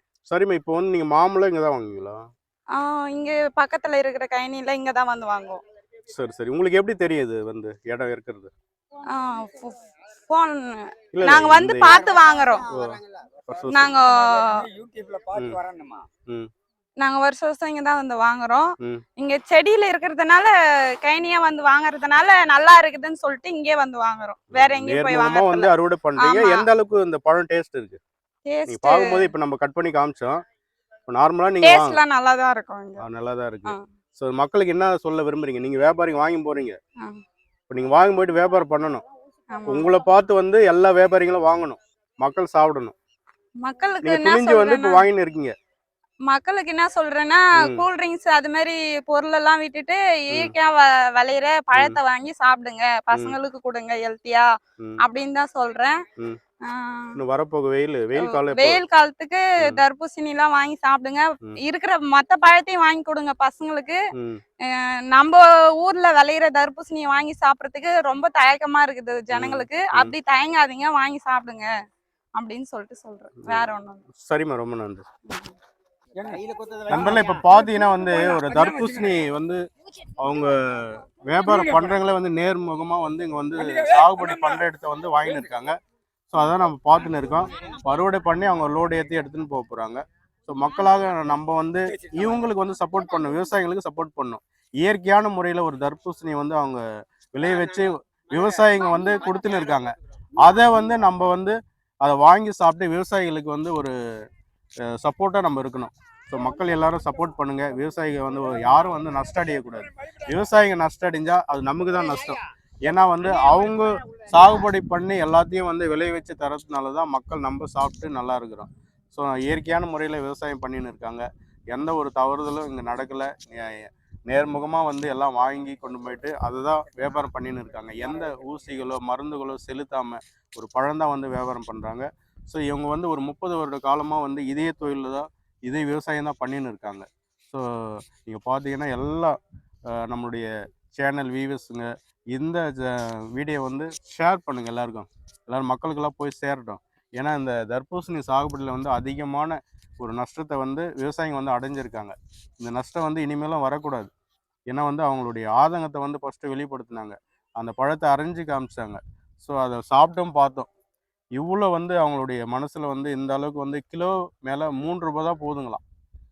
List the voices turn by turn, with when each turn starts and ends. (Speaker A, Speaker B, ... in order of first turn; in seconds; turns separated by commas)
Speaker A: 0.3-2.2, Speaker B: 2.8-5.6, Speaker A: 6.1-8.5, Speaker B: 9.1-12.7, Speaker A: 11.1-12.1, Speaker A: 12.7-14.0, Speaker B: 13.7-14.7, Speaker C: 14.8-16.0, Speaker A: 15.3-15.6, Speaker B: 17.0-26.7, Speaker A: 24.5-28.0, Speaker B: 28.5-29.3, Speaker A: 28.7-30.4, Speaker A: 31.1-32.0, Speaker B: 31.6-33.0, Speaker A: 33.0-36.8, Speaker A: 37.7-39.0, Speaker B: 39.5-39.9, Speaker A: 39.7-42.9, Speaker B: 43.6-45.0, Speaker A: 44.0-45.5, Speaker B: 46.3-54.5, Speaker A: 51.7-52.0, Speaker B: 55.0-56.0, Speaker B: 56.6-57.2, Speaker A: 57.2-58.8, Speaker B: 58.1-64.0, Speaker B: 64.7-71.7, Speaker A: 69.3-70.2, Speaker B: 72.3-74.1, Speaker A: 73.4-75.1, Speaker C: 76.2-77.2, Speaker A: 76.9-79.6, Speaker B: 77.6-77.9, Speaker A: 80.2-85.8, Speaker A: 86.3-96.8, Speaker A: 97.3-104.0, Speaker A: 104.9-139.4, Speaker A: 139.9-154.1, Speaker A: 154.7-160.7, Speaker A: 161.3-165.8